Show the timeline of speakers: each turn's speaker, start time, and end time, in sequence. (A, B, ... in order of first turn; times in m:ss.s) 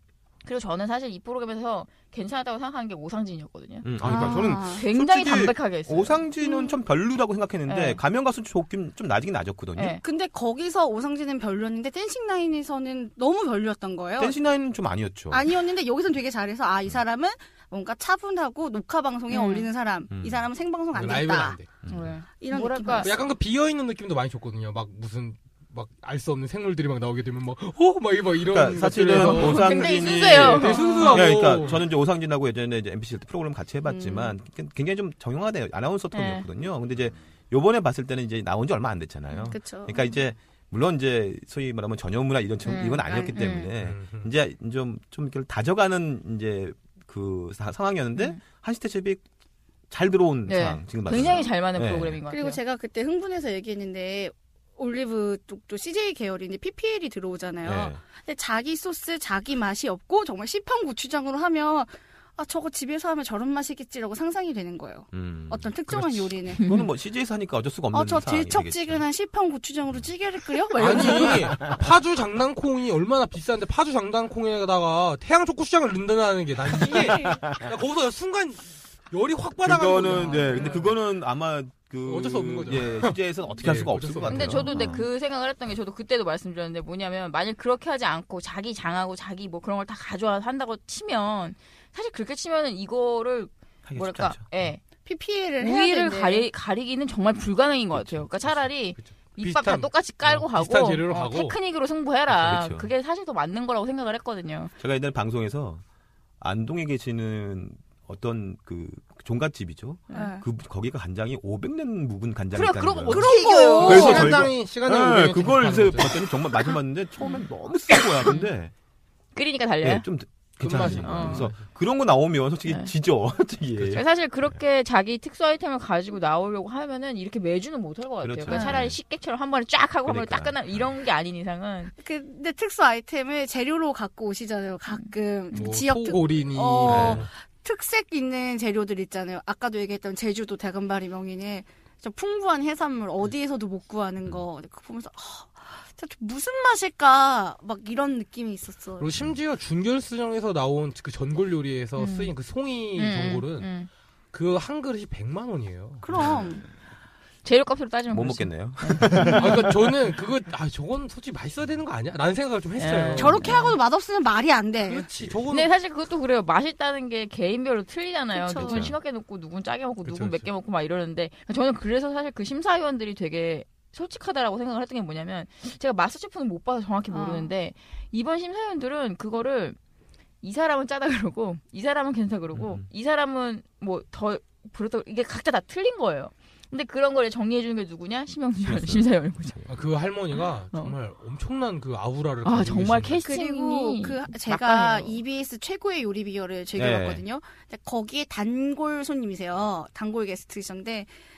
0:00.4-0:06.2 A
0:03.8-0:10.0 B
0:04.0-0:04.8 C
0:06.4-0:06.8 C
0:07.7-0:08.0 A
0:09.8-0:10.0 A
0:10.0-0:14.4 C
0:14.2-0:15.4 B
0:15.3-0:21.6 C
0:19.3-0:19.7 A
0:20.1-0:20.4 B
0:20.9-0:21.7 D
0:21.8-0:22.1 B
0:21.9-0:23.1 A
0:22.4-0:23.2 C
0:23.0-0:31.8 D
0:28.4-0:49.2 B
0:29.2-0:31.4 A
0:33.8-0:34.4 C
0:36.1-0:36.4 A
0:39.4-0:40.1 C
0:42.6-0:43.7 A
0:42.7-0:43.5 C
0:43.8-0:44.3 D
0:49.9-0:52.2 B
0:50.5-0:52.6 A
0:51.1-0:51.5 C
0:52.3-1:06.6 C
0:57.6-0:58.0 B
1:05.1-1:09.0 B
1:06.6-1:06.9 A
1:07.9-1:11.7 C
1:10.8-1:20.9 D
1:17.2-1:17.6 B
1:19.6-1:25.0 B
1:20.5-1:20.7 A
1:22.0-1:24.7 D
1:24.3-1:34.8 A
1:33.8-1:34.5 B
1:35.0-1:36.5 C
1:35.6-1:44.7 A
1:37.9-1:38.3 B
1:39.0-1:41.6 D
1:42.3-1:42.9 B
1:44.8-1:45.8 B
1:46.4-1:58.7 B
1:50.1-1:50.4 C
1:52.5-1:54.3 A
1:53.1-1:54.4 C
1:53.7-1:56.2 D
1:59.3-2:00.0 A
1:59.8-2:04.0 B
2:00.6-2:01.6 D
2:00.8-2:01.5 A
2:03.9-2:11.9 A
2:08.2-2:09.0 B
2:08.5-2:08.8 C
2:10.0-2:10.9 B
2:12.0-2:29.2 C
2:15.5-2:17.3 D
2:16.8-2:17.2 B
2:29.0-2:33.7 D
2:32.0-2:32.3 A
2:32.9-2:33.9 A
2:34.3-2:36.1 D
2:36.0-2:36.6 C
2:37.4-2:39.6 A
2:38.1-2:39.7 B
2:39.2-2:43.5 D
2:42.8-2:43.7 A
2:43.1-2:45.1 C
2:44.9-2:45.7 D
2:45.5-2:59.8 A
2:48.3-2:48.8 C
2:48.6-2:49.0 B
2:50.0-2:50.5 D
2:57.1-2:57.5 C
3:00.4-3:09.6 A
3:02.5-3:02.8 B
3:08.6-3:09.7 B
3:09.7-3:13.2 D
3:12.4-3:15.2 A
3:13.2-3:21.1 C
3:16.8-3:17.2 B